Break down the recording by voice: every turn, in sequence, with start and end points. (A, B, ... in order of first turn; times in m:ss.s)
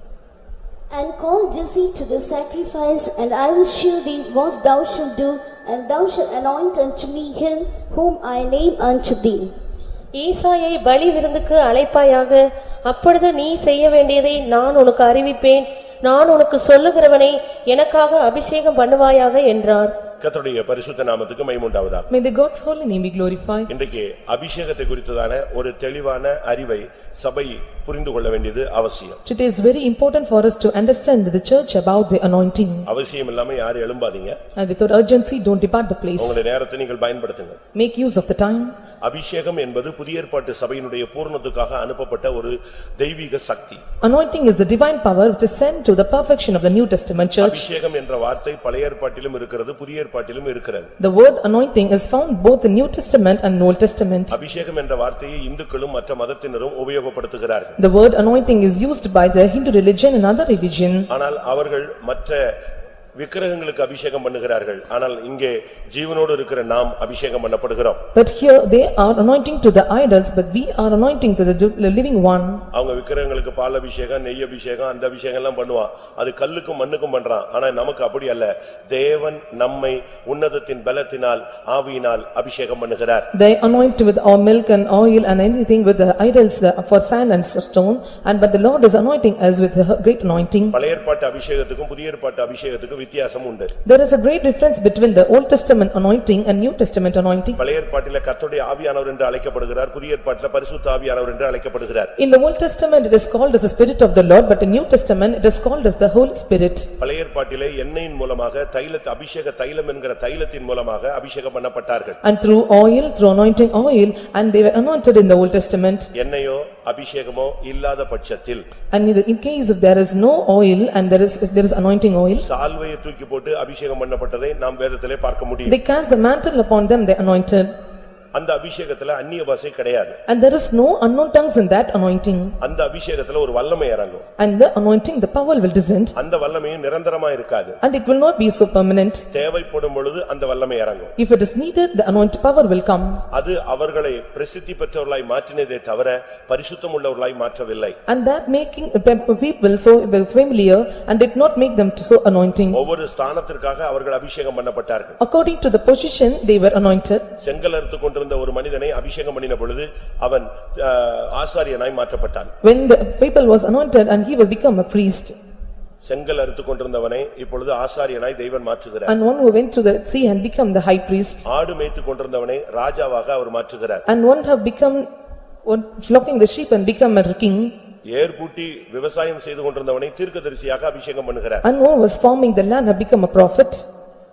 0:00.9-0:09.5 A
0:10.2-0:19.9 B
0:20.2-0:22.1 C
0:22.1-0:23.7 D
0:23.7-0:29.2 C
0:29.2-0:32.8 D
0:32.8-0:34.4 C
0:34.6-0:36.4 D
0:36.2-0:37.6 C
0:37.7-0:38.7 D
0:39.0-0:43.8 C
0:44.0-0:47.6 D
0:47.4-0:50.9 C
0:51.0-0:54.4 D
0:54.3-0:57.8 C
0:57.8-1:01.1 D
1:01.1-1:02.5 C
1:03.2-1:08.0 C
1:08.1-1:12.6 D
1:12.7-1:23.3 C
1:23.3-1:30.8 D
1:30.7-1:33.7 C
1:33.8-1:37.6 D
1:37.5-1:42.1 C
1:42.2-1:46.9 D
1:47.0-1:52.2 C
1:52.2-1:56.1 D
1:56.1-1:58.6 C
1:58.9-2:02.4 D
2:02.4-2:05.8 C
2:05.6-2:07.7 D
2:08.3-2:10.2 C
2:10.3-2:12.5 D
2:12.6-2:14.2 C
2:14.4-2:16.1 D
2:16.2-2:17.8 C
2:17.8-2:19.3 D
2:19.3-2:21.1 C
2:21.2-2:23.2 D
2:23.3-2:28.0 C
2:28.1-2:32.8 D
2:32.7-2:35.2 C
2:35.2-2:37.2 D
2:37.4-2:42.5 C
2:42.6-2:45.3 D
2:46.0-2:49.1 C
2:49.0-2:51.4 D
2:51.4-2:54.0 C
2:54.0-2:55.0 D
2:55.6-2:57.7 D
2:58.1-3:01.6 C
3:01.6-3:03.8 D